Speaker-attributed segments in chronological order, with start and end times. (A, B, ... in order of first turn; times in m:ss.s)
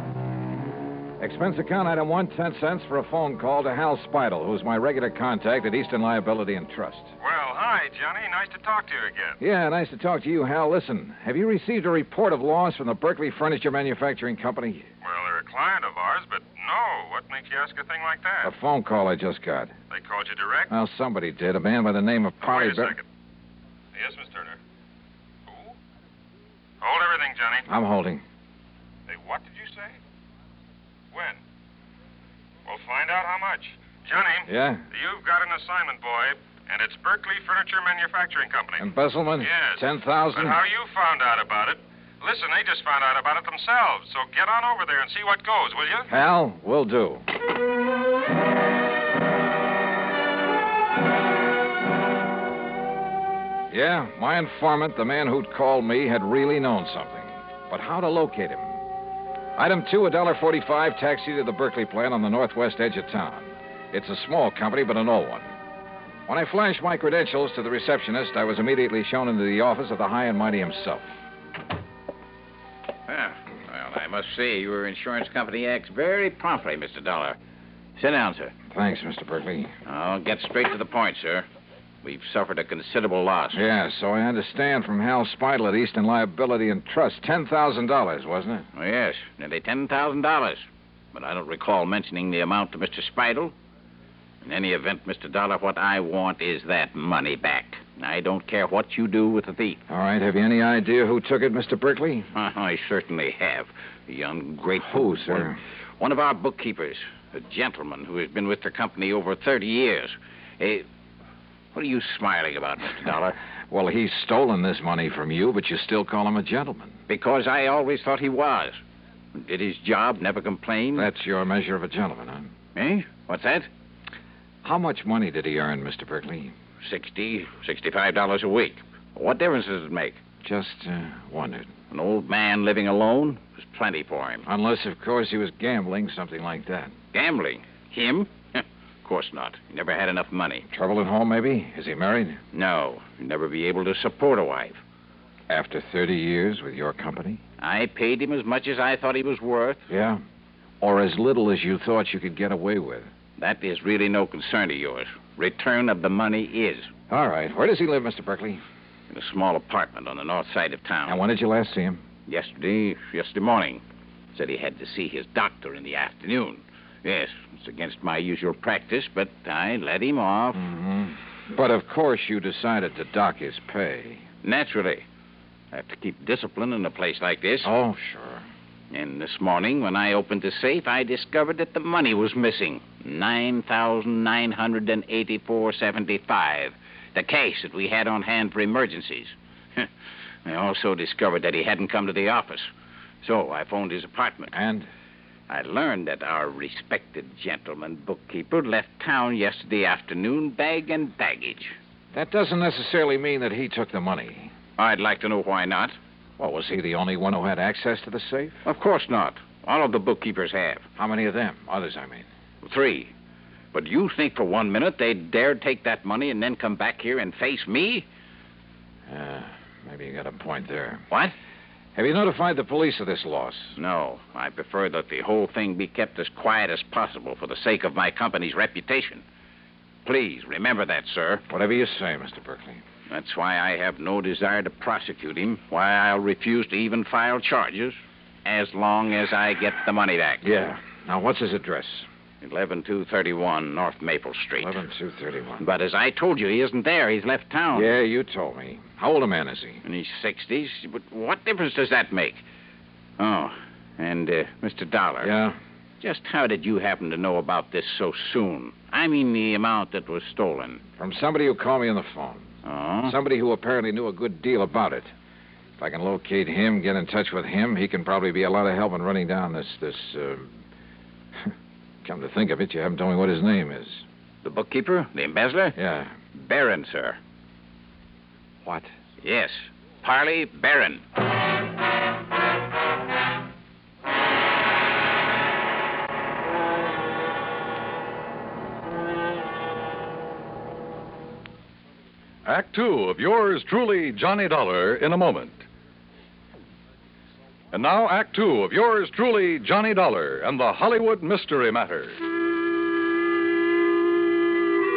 0:01.2-0:07.1 A
0:07.2-0:09.4 B
0:09.4-0:14.8 A
0:15.0-0:18.5 B
0:18.4-0:19.7 A
0:19.9-0:20.7 B
0:20.7-0:23.0 A
0:22.4-0:23.0 B
0:23.9-0:24.6 B
0:25.5-0:25.7 B
0:26.8-0:27.7 B
0:27.7-0:28.2 A
0:29.1-0:30.0 B
0:31.1-0:31.4 B
0:32.6-0:38.8 B
0:34.4-0:34.8 A
0:38.8-0:40.6 A
0:39.4-0:46.1 B
0:46.1-0:47.2 A
0:53.7-0:58.8 A
0:59.6-1:05.5 A
1:06.3-1:11.1 A
1:13.1-1:17.4 C
1:18.0-1:18.5 C
1:18.7-1:19.7 A
1:19.9-1:21.4 C
1:22.0-1:23.6 C
1:23.5-1:28.7 A
1:28.7-1:33.5 C
1:34.4-1:39.8 C
1:39.9-1:42.3 A
1:42.3-1:50.8 C
1:44.8-1:45.6 A
1:51.7-1:53.4 C
1:53.7-1:57.0 A
1:57.1-1:58.8 C
1:59.4-2:01.1 C
2:00.9-2:02.5 A
2:02.7-2:03.7 C
2:04.6-2:06.5 A
2:06.8-2:10.2 C
2:10.4-2:11.7 A
2:11.9-2:14.4 C
2:14.4-2:16.9 A
2:17.1-2:20.6 C
2:20.7-2:22.4 A
2:22.5-2:24.8 C
2:25.5-2:27.4 A
2:27.6-2:29.8 C
2:29.9-2:30.2 A
2:30.8-2:33.1 A
2:33.4-2:36.9 C
2:37.1-2:38.6 A
2:39.1-2:41.2 C
2:41.1-2:42.0 A
2:42.3-2:43.8 C
2:44.3-2:50.6 C
2:50.5-2:54.2 A
2:54.4-2:55.0 C
2:55.7-2:57.7 C
2:57.6-2:58.4 A
2:58.9-3:09.9 C
3:10.4-3:12.7 C
3:13.2-3:14.5 C
3:14.5-3:14.9 A
3:15.5-3:21.7 C
3:22.1-3:24.5 A
3:24.8-3:26.0 C
3:26.4-3:28.6 A
3:28.6-3:30.8 C
3:31.0-3:32.3 A
3:32.6-3:33.1 C
3:33.7-3:38.0 C
3:39.1-3:41.1 A
3:42.0-3:43.8 A
3:43.8-3:49.2 C
3:50.0-3:51.4 C
3:51.5-3:52.8 A
3:53.1-4:00.4 C
4:00.4-4:02.1 A
4:02.4-4:04.8 C
4:04.6-4:05.7 A
4:05.6-4:08.0 C
4:07.7-4:09.8 A
4:09.8-4:12.4 C
4:13.2-4:15.3 C
4:15.2-4:15.6 A
4:16.0-4:20.8 C
4:21.0-4:22.5 A
4:22.6-4:23.2 C
4:23.0-4:25.1 A
4:25.8-4:30.6 A
4:32.0-4:34.0 A
4:34.4-4:35.8 C
4:35.8-4:36.1 A
4:36.3-4:37.2 C
4:38.6-4:38.9 A
4:39.2-4:41.0 C
4:52.4-4:55.6 D
4:57.7-5:02.2 D